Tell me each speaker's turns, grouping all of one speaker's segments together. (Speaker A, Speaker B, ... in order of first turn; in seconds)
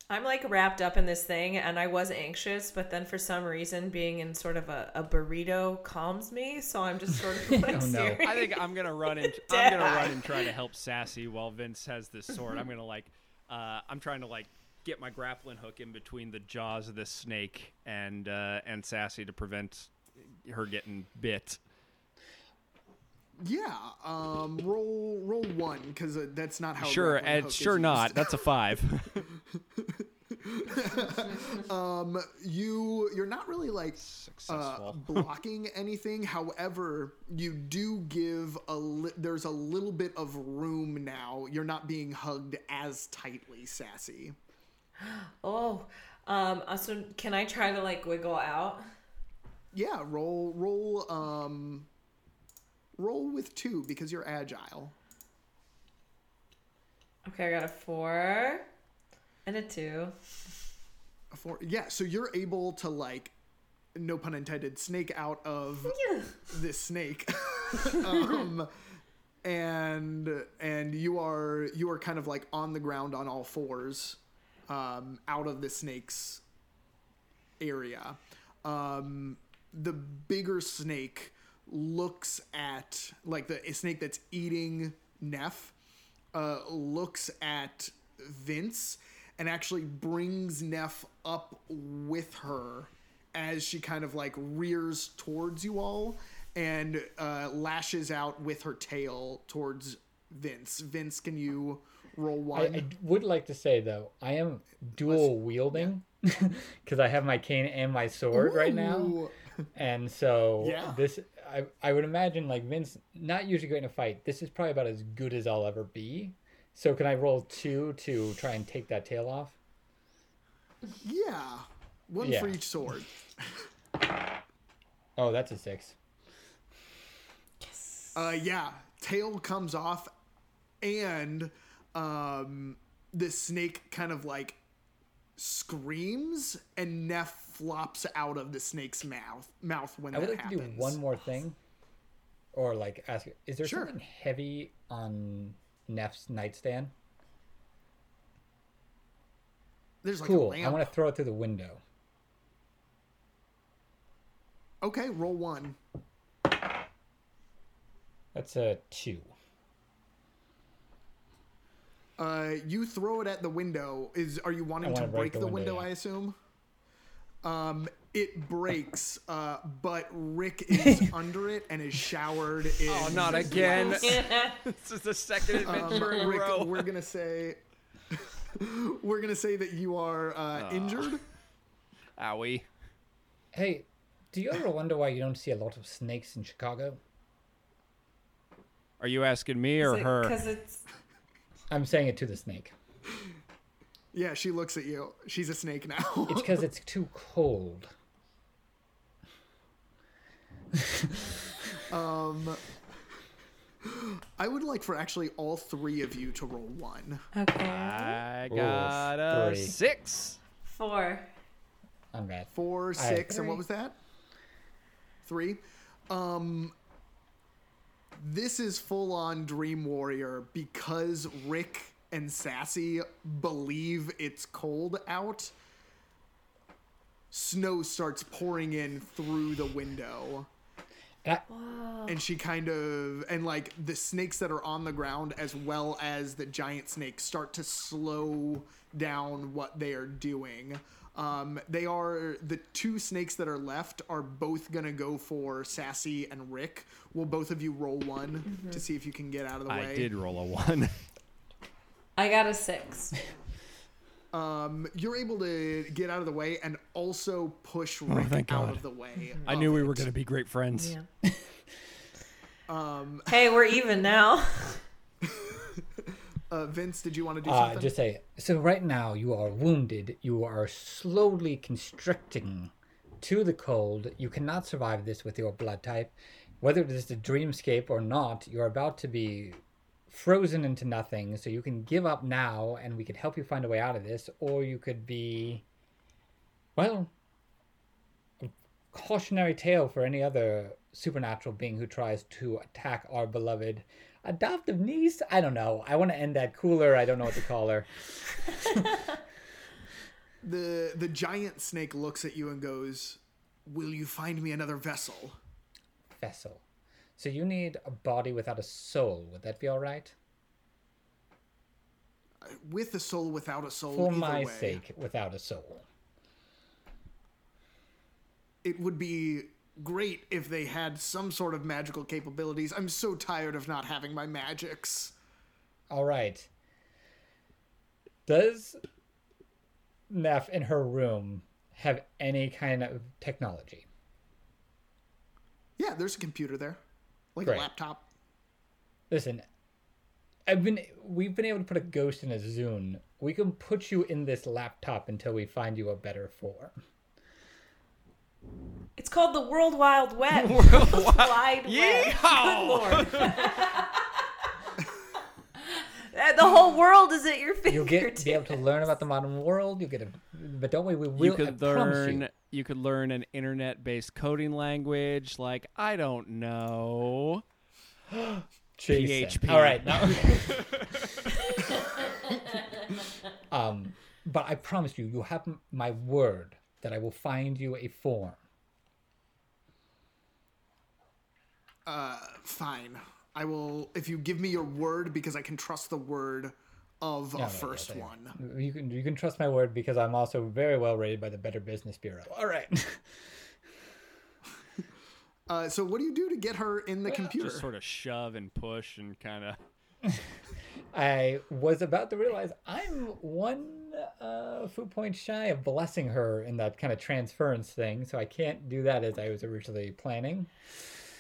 Speaker A: 0.1-8.6, 9.3-10.5, 45.0-48.9, 57.2-58.6, 59.5-60.1, 65.9-66.4, 127.6-128.3, 173.5-174.6, 175.6-176.1, 189.8-190.8, 207.3-208.2, 210.6-211.3, 231.5-232.2, 248.5-248.8, 252.2-253.2, 260.8-261.1, 263.3-264.8, 349.0-354.3, 355.6-358.6
Speaker B: 7.3-8.2, 102.5-109.2, 109.7-119.5, 122.2-122.6, 125.2-125.9, 140.1-141.6, 142.5-146.9, 150.2-151.8, 158.3-159.3, 164.8-165.9, 170.8-171.1, 183.5-187.0, 191.7-192.7, 196.3-197.9, 200.7-201.3, 208.5-209.7, 212.1-213.6, 261.2-261.6, 267.4-285.6, 286.8-287.1, 288.4-299.0, 306.1-306.6, 307.2-310.1, 313.9-315.8, 325.9-326.5, 328.2-328.8, 330.1-333.9, 337.4-337.7, 339.1-339.4, 340.5-346.7, 357.7-362.3, 368.1-370.7, 373.5-378.4, 387.4-393.4, 400.9-411.0
Speaker C: 8.2-21.6, 26.8-29.2, 34.0-35.3, 172.8-176.8, 180.6-181.2, 182.2-182.7, 189.0-190.4, 207.6-210.4, 249.7-251.0, 258.1-258.8, 259.4-260.9, 350.3-353.5, 361.1-367.4, 368.9-371.2, 397.1-399.6
Speaker D: 23.4-28.4, 29.3-44.4, 49.7-51.9, 53.0-54.9, 61.3-63.3, 63.9-68.7, 69.4-76.4, 77.6-85.7, 86.3-102.9, 105.0-105.9, 108.3-109.3, 110.6-111.0, 121.0-123.7, 128.1-130.1, 130.8-134.6, 135.4-141.0, 143.6-143.9, 150.0-150.9, 154.8-155.8, 162.2-166.3, 167.4-174.2, 175.6-177.6, 178.1-181.2, 194.1-196.6, 201.8-202.6, 203.8-207.3, 212.5-214.0, 215.2-216.7, 218.2-225.5, 227.3-230.5, 232.1-250.1, 254.3-260.1, 262.7-263.5, 265.2-265.8, 266.5-267.9, 300.4-305.4, 312.4-314.8, 318.6-325.1, 335.8-336.8, 337.3-338.1, 381.9-388.4, 395.5-397.7